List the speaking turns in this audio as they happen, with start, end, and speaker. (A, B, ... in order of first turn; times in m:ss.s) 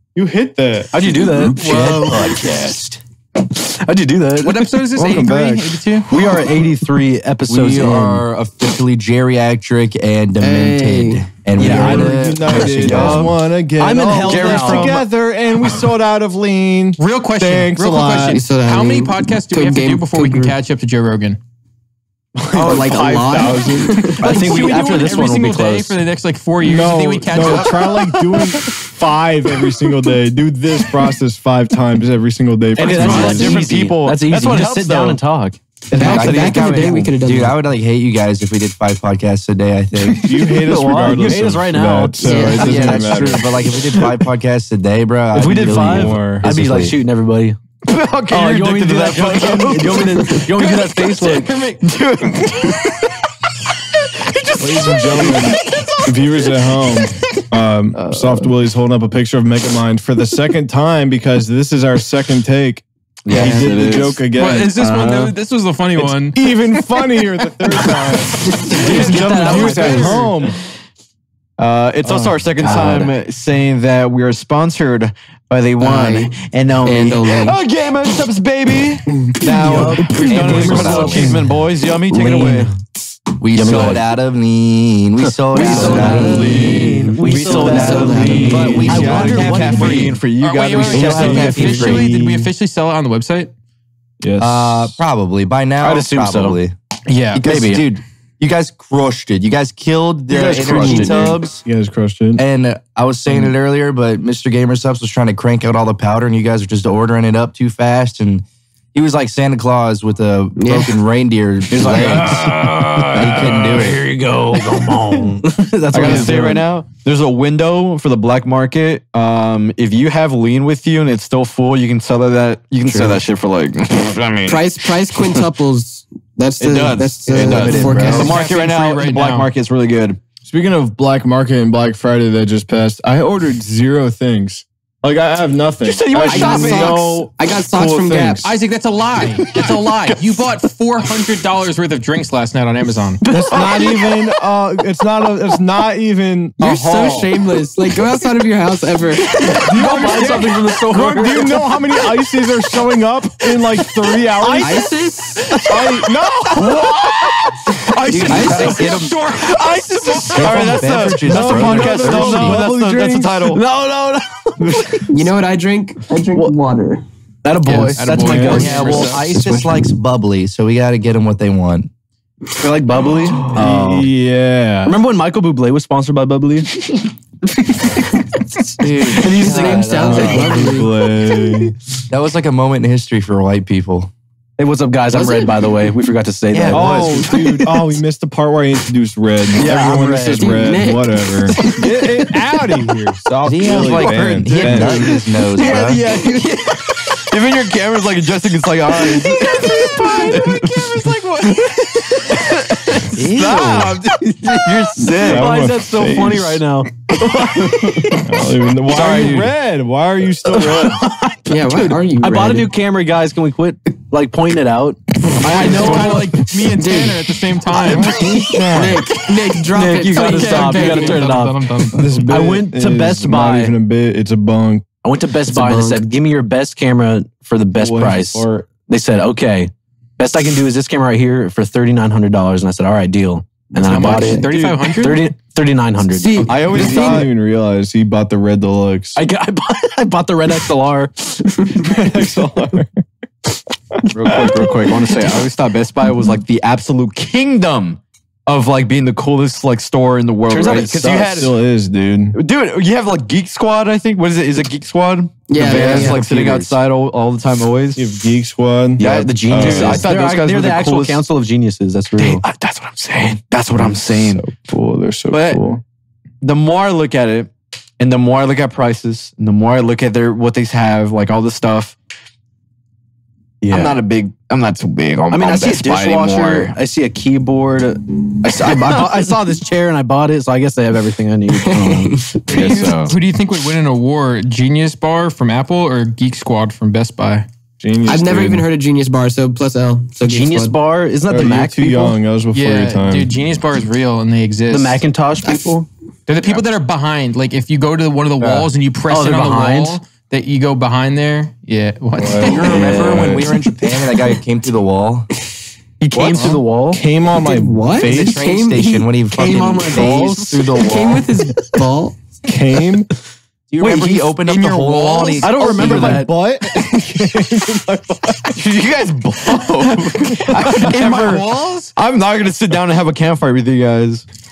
0:00.1-0:00.9 A
0:00.9-0:02.1 B
0:01.4-0:02.4 C
0:01.6-0:03.0 D
0:02.4-0:02.7 E
0:03.5-0:04.7 B
0:04.4-0:06.1 C
0:05.0-0:05.8 A
0:06.1-0:08.2 B
0:07.5-0:13.3 D
0:10.4-0:11.3 F
0:11.6-0:12.1 B
0:11.6-0:18.4 A
0:11.8-0:12.4 F
0:12.8-0:13.3 E
0:13.8-0:15.0 B
0:14.2-0:15.0 E
0:17.0-0:21.4 C
0:18.3-0:20.5 F
0:22.5-0:22.8 B
0:22.5-0:23.3 E
0:22.6-0:24.2 F
0:22.6-0:24.1 A
0:24.2-0:26.0 B
0:24.2-0:27.8 C
0:26.6-0:33.6 A
0:32.8-0:35.6 B
0:32.8-0:35.2 E
0:33.1-0:33.7 F
0:35.9-0:40.3 D
0:36.0-0:37.6 F
0:36.0-0:37.1 E
0:40.1-0:43.5 A
0:40.5-0:43.3 B
0:42.2-0:42.9 F
0:42.5-0:47.0 D
0:45.3-0:47.6 B
0:45.5-0:46.4 A
0:47.8-0:53.1 E
0:48.3-0:51.5 B
0:51.2-0:51.8 C
0:54.2-0:55.9 E
0:54.6-1:05.0 A
0:57.9-0:58.5 E
1:03.2-1:04.3 E
1:03.3-1:03.9 F
1:04.3-1:06.5 C
1:06.0-1:10.6 A
1:08.7-1:10.3 B
1:08.8-1:10.3 E
1:08.9-1:09.7 C
1:11.6-1:22.7 E
1:12.0-1:12.4 A
1:12.6-1:13.1 B
1:15.8-1:17.6 F
1:19.3-1:21.0 A
1:19.5-1:21.5 B
1:20.2-1:21.4 D
1:22.1-1:22.7 B
1:23.4-1:26.9 D
1:23.5-1:24.1 B
1:25.5-1:30.0 B
1:25.5-1:26.7 F
1:25.6-1:31.6 E
1:26.1-1:30.1 A
1:27.5-1:28.9 F
1:28.3-1:30.2 D
1:30.4-1:33.5 C
1:30.9-1:32.1 D
1:30.9-1:32.5 A
1:34.2-1:35.0 A
1:34.4-1:36.7 D
1:35.8-1:36.6 B
1:37.1-1:37.4 C
1:37.3-1:41.6 D
1:37.4-1:37.8 B
1:40.3-1:41.4 B
1:40.5-1:41.2 E
1:40.8-1:42.4 A
1:42.3-1:52.5 D
1:50.6-1:51.0 F
1:51.7-1:56.6 B
1:51.8-1:54.0 E
1:53.1-1:54.0 D
1:54.6-1:55.3 E
1:55.9-2:05.4 E
2:02.9-2:03.2 B
2:04.4-2:08.4 F
2:06.6-2:10.2 E
2:07.3-2:08.3 D
2:07.7-2:08.3 A
2:08.1-2:09.5 C
2:10.4-2:18.5 A
2:15.8-2:17.2 E
2:16.3-2:18.4 F
2:18.4-2:23.2 C
2:23.2-2:24.1 B
2:23.3-2:27.3 A
2:26.6-2:30.4 F
2:29.5-2:31.6 B
2:29.6-2:34.9 A
2:34.4-2:34.9 E
2:34.6-2:35.6 F
2:35.5-2:35.9 E
2:35.6-2:36.7 A
2:36.5-2:43.6 E
2:38.0-2:39.2 D
2:38.2-2:40.8 C
2:40.1-2:42.6 D
2:41.2-2:43.6 A
2:42.1-2:42.6 B
2:43.5-2:45.0 B
2:44.7-2:45.0 E
2:45.1-2:47.0 F
2:47.4-2:49.7 B
2:47.6-2:49.3 C
2:48.1-2:48.7 A
2:48.5-2:51.9 D
2:48.8-2:49.1 E
2:52.6-2:54.0 B
2:53.5-2:55.0 A
2:54.8-2:57.0 B
2:58.8-2:59.8 D
2:59.0-3:00.6 B
2:59.0-3:01.0 F
2:59.9-3:01.7 A
3:02.1-3:04.1 D
3:04.6-3:07.7 B
3:05.1-3:05.8 F
3:06.5-3:07.4 D
3:06.7-3:15.2 A
3:09.5-3:10.8 B
3:10.3-3:11.8 F
3:11.6-3:11.9 B
3:13.4-3:16.0 D
3:13.8-3:16.8 B
3:16.9-3:21.1 E
3:19.8-3:22.5 C
3:22.3-3:25.7 E
3:23.1-3:24.0 D
3:23.5-3:23.8 B
3:24.4-3:28.1 B
3:25.2-3:26.6 A
3:27.2-3:28.2 E
3:28.2-3:31.0 A
3:28.9-3:29.5 E
3:31.3-3:36.3 B
3:31.5-3:32.7 F
3:35.5-3:38.2 C
3:35.8-3:36.0 F
3:36.7-3:37.2 F
3:37.8-3:38.9 A
3:38.1-3:38.9 E
3:38.7-3:41.3 F
3:39.7-3:41.6 B
3:40.2-3:42.2 C
3:41.9-3:44.8 A
3:42.3-3:43.7 B
3:45.0-3:54.5 B
3:45.5-3:46.0 F
3:47.8-3:48.7 A
3:53.8-3:55.2 C
3:54.3-3:54.9 E
3:55.0-3:57.1 B
3:56.1-3:56.7 F
3:56.4-3:57.3 E
3:56.7-3:59.2 A
3:59.2-4:02.1 B
4:01.8-4:03.0 A
4:03.9-4:04.9 A
4:04.1-4:11.5 E
4:10.5-4:11.4 B
4:11.1-4:12.3 A
4:12.3-4:18.0 E
4:15.5-4:16.2 F
4:15.6-4:16.8 D
4:17.9-4:20.1 A
4:19.0-4:22.4 B
4:19.0-4:21.2 E
4:22.2-4:24.4 E
4:23.7-4:25.8 A
4:25.3-4:25.6 E
4:26.4-4:32.0 E
4:33.6-4:34.0 B
4:33.7-4:36.7 E
4:35.3-4:42.8 B
4:41.5-4:43.0 F
4:42.5-4:43.2 E
4:42.6-4:47.4 C
4:47.8-4:48.6 A
4:48.0-4:50.8 F
4:50.2-4:52.2 B
4:51.3-4:53.3 A
4:52.5-4:55.0 C
4:54.7-4:55.9 B
4:56.3-5:02.9 C
4:58.4-4:58.7 A
4:59.1-5:00.0 B
5:02.2-5:03.5 A
5:02.4-5:05.3 D
5:02.6-5:03.4 B
5:06.0-5:07.0 B
5:06.1-5:06.5 D
5:06.3-5:08.4 A
5:07.3-5:09.1 F
5:08.0-5:11.2 D
5:09.4-5:10.7 B
5:10.8-5:12.2 F
5:12.4-5:13.1 A
5:13.7-5:16.3 D
5:14.5-5:15.4 C
5:14.5-5:15.3 E
5:15.4-5:16.3 B
5:15.5-5:18.6 A
5:18.5-5:24.2 E
5:20.4-5:21.9 C